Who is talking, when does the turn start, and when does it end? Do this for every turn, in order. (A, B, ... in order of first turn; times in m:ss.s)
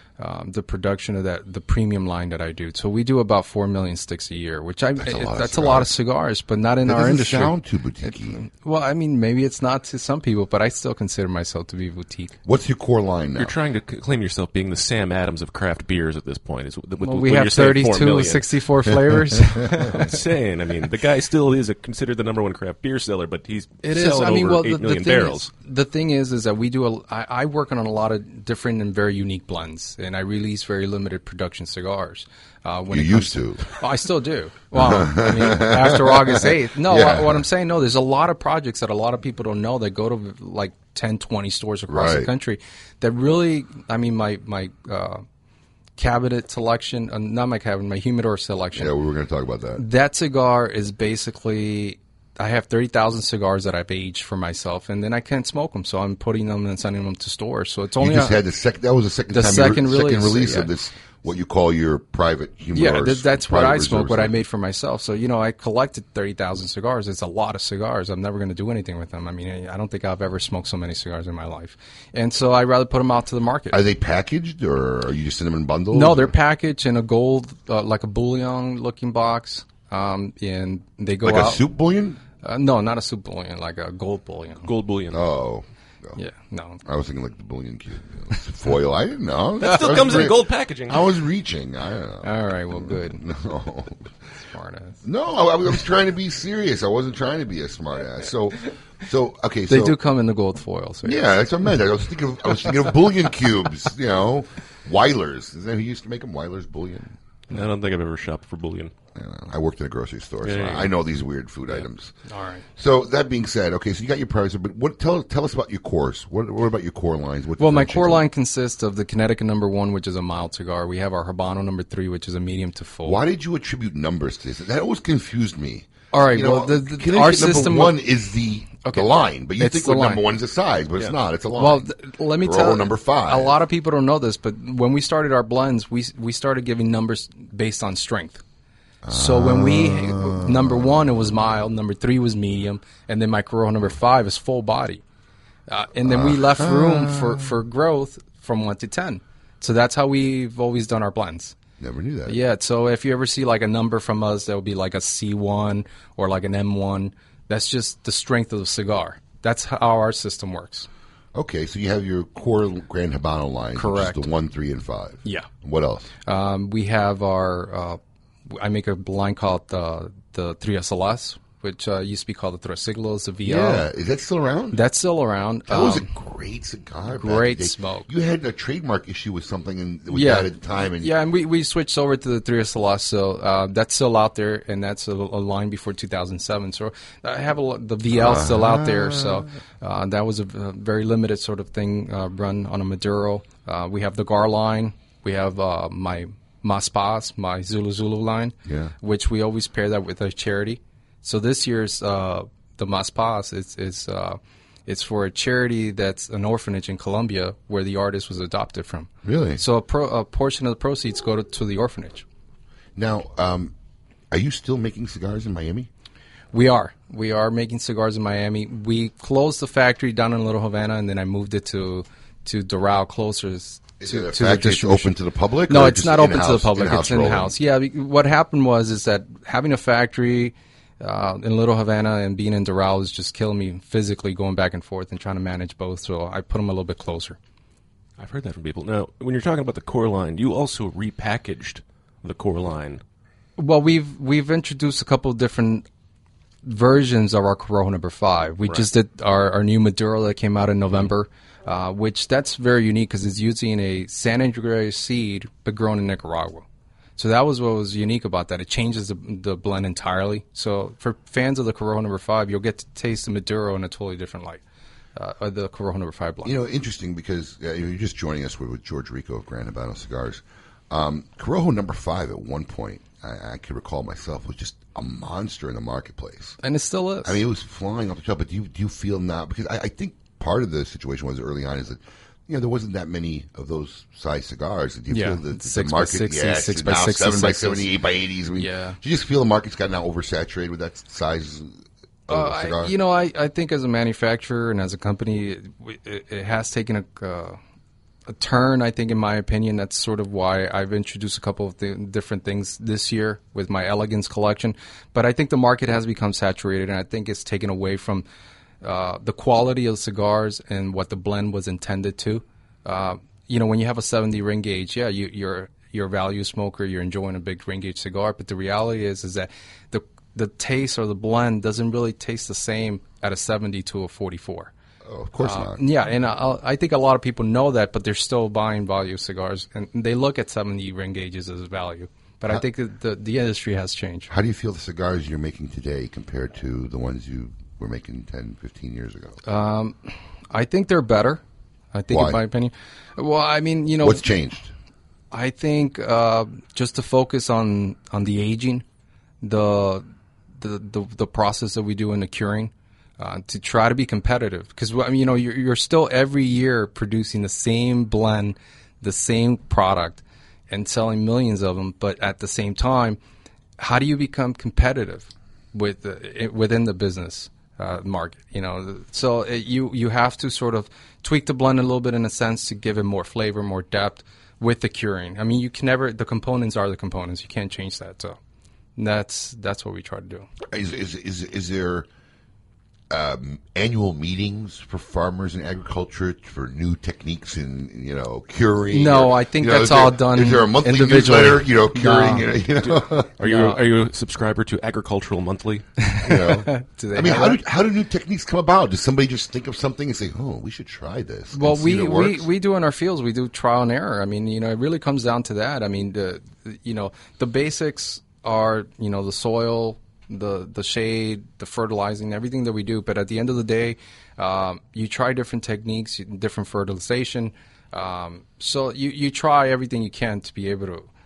0:00.2-0:07.5 A
0:05.0-0:05.9 B
0:06.8-0:08.4 B
0:08.0-0:12.4 A
0:12.4-0:13.5 B
0:13.4-0:18.4 C
0:17.0-0:20.1 A
0:19.9-0:25.5 C
0:23.8-0:45.2 A
0:32.9-0:33.7 B
0:34.7-0:37.4 B
0:41.9-0:42.3 B
0:46.0-0:48.9 A
0:48.7-0:49.8 B
0:49.8-0:58.4 A
0:58.0-1:04.3 B
0:59.3-1:00.7 A
1:02.7-1:13.8 A
1:13.7-1:16.3 B
1:15.9-1:21.6 A
1:21.2-1:22.2 B
1:22.4-1:24.7 A
1:24.6-1:25.2 C
1:25.1-1:26.2 B
1:26.2-1:26.8 A
1:26.8-1:34.1 B
1:29.6-1:31.0 C
1:29.6-1:30.2 A
1:32.2-1:33.2 A
1:34.3-1:35.0 A
1:35.0-1:40.0 B
1:39.7-1:41.4 A
1:41.0-1:47.2 B
1:47.5-1:48.9 C
1:49.1-1:52.1 B
1:50.4-1:50.9 C
1:51.7-1:52.6 A
1:52.8-1:58.2 B
1:57.6-2:03.2 A
2:03.0-2:13.6 B
2:06.1-2:08.0 A
2:08.8-2:10.2 A
2:11.6-2:18.4 A
2:19.0-2:21.2 B
2:19.1-2:25.0 A
2:25.7-2:31.5 A
2:26.0-2:27.5 B
2:31.8-2:32.4 B
2:32.2-2:40.9 A
2:41.3-2:46.1 B
2:43.8-2:44.3 A
2:46.2-2:53.8 A
2:53.4-2:54.8 B
2:54.7-2:56.1 A
2:55.7-3:01.1 B
2:57.1-2:58.1 A
3:00.1-3:32.2 A
3:08.1-3:09.5 B
3:18.6-3:18.9 B
3:29.2-3:29.6 B
3:33.0-3:33.7 B
3:34.3-3:35.9 B
3:36.5-3:45.1 A
3:44.0-3:47.5 B
3:45.7-3:57.4 A
3:58.2-4:03.0 C
4:03.6-4:05.8 A
4:06.6-4:16.6 A
4:17.2-4:24.6 A
4:25.2-4:26.5 A
4:26.4-4:36.6 B
4:36.6-4:37.4 A
4:37.2-4:52.9 B
4:45.1-4:47.9 A
4:48.6-4:49.0 A
4:52.3-4:57.6 A
4:58.3-5:08.2 A
5:08.8-5:24.7 A
5:25.0-5:25.8 B
5:25.4-5:34.3 A
5:34.3-5:39.4 B
5:39.4-5:40.0 A
5:40.5-5:41.4 A
5:41.9-5:44.2 A
5:42.1-5:42.4 B
5:44.0-5:44.7 B
5:45.3-5:48.8 A
5:49.4-5:50.0 A
5:50.6-6:03.2 A
6:03.8-6:18.4 A
6:19.0-6:20.5 A
6:20.7-6:22.1 B
6:23.1-6:33.3 B
6:28.9-6:32.5 A
6:33.4-6:35.8 C
6:33.4-6:33.8 A
6:36.1-6:37.6 A
6:36.2-6:42.5 B
6:41.5-7:01.1 A